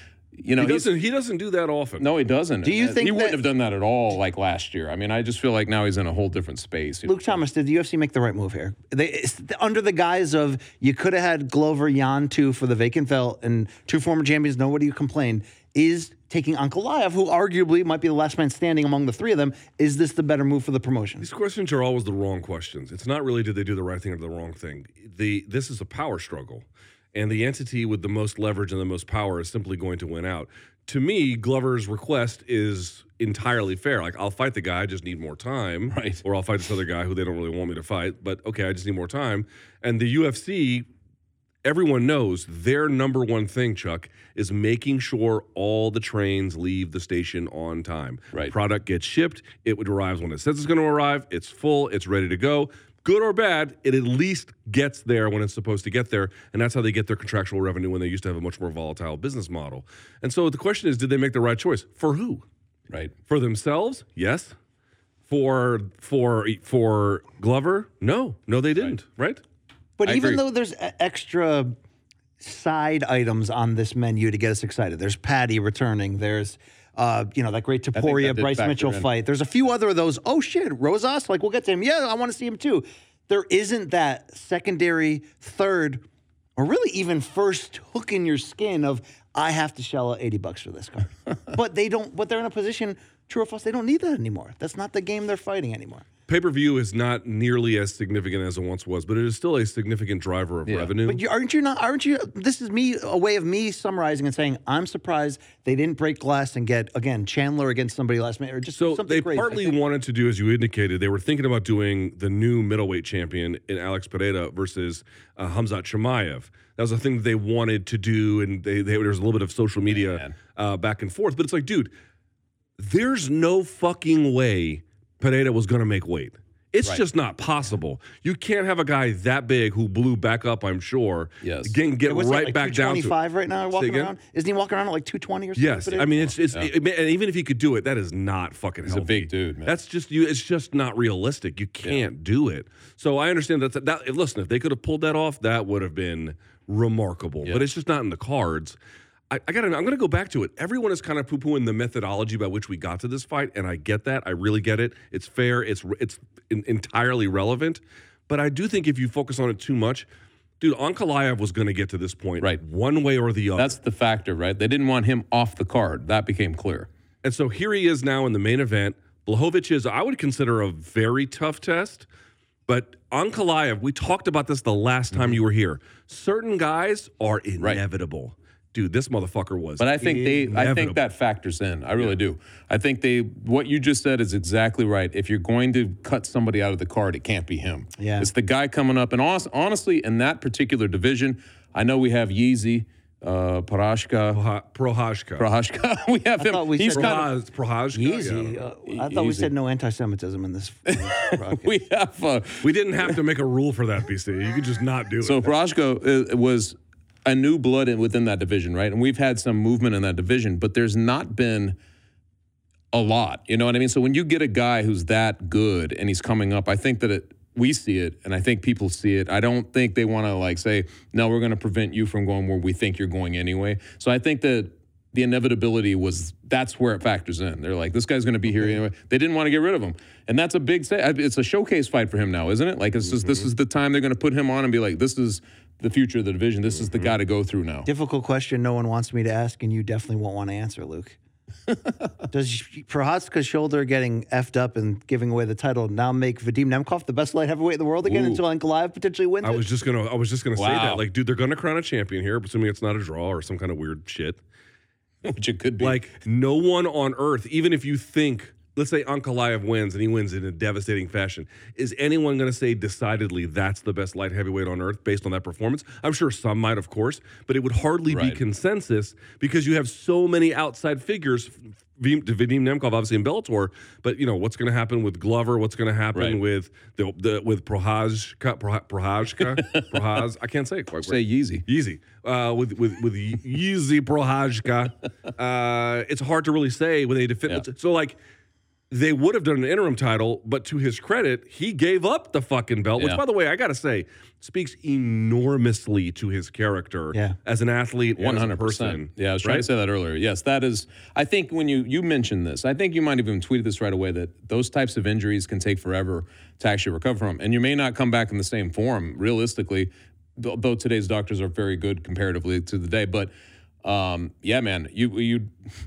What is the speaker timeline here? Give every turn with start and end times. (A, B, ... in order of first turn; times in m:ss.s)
0:00.4-0:00.9 A
0:00.6-0:02.1 B
0:02.0-0:07.3 A
0:02.6-0:03.4 C
0:07.1-0:21.3 C
0:21.2-0:40.8 B
0:35.9-0:36.2 A
0:41.6-1:02.4 B
1:03.3-1:04.5 B
1:05.3-1:09.4 B
1:10.0-1:11.7 C
1:10.0-1:10.4 A
1:12.4-1:26.0 C
1:17.9-1:19.1 A
1:26.6-1:36.0 C
1:36.3-1:41.2 B
1:40.6-1:40.9 A
1:41.0-1:49.8 C
1:48.7-2:01.9 B
1:59.9-2:00.4 A
2:02.8-2:13.1 B
2:11.4-2:11.8 A
2:12.0-2:16.3 C
2:13.7-2:14.1 B
2:15.6-2:28.8 B
2:16.4-2:16.7 A
2:18.8-2:19.7 A
2:29.3-2:40.1 B
2:40.6-2:43.8 B
2:43.6-2:46.9 A
2:47.2-2:52.0 B
2:52.7-3:00.0 B
2:55.1-2:55.4 A
2:59.8-3:14.4 A
3:00.0-3:00.5 C
3:00.5-3:01.0 B
3:08.0-3:08.3 C
3:14.3-3:15.5 B
3:15.4-3:17.3 A
3:16.4-3:17.3 C
3:16.9-3:18.6 B
3:17.9-3:21.7 C
3:18.8-3:19.5 A
3:20.9-3:23.1 A
3:22.6-3:25.5 B
3:25.2-3:31.8 A
3:32.9-3:57.9 A
3:53.1-3:53.5 B
3:56.8-3:57.2 B
3:57.8-4:01.2 C
4:02.3-4:09.6 C
4:08.0-4:08.4 B
4:09.4-4:14.4 B
4:10.6-4:11.0 A
4:15.2-4:16.1 A
4:15.8-4:48.2 B
4:28.1-4:28.4 A
4:39.5-4:40.2 A
4:41.0-4:41.6 A
4:48.9-4:59.7 B
4:58.2-5:13.3 A
5:13.8-5:15.5 A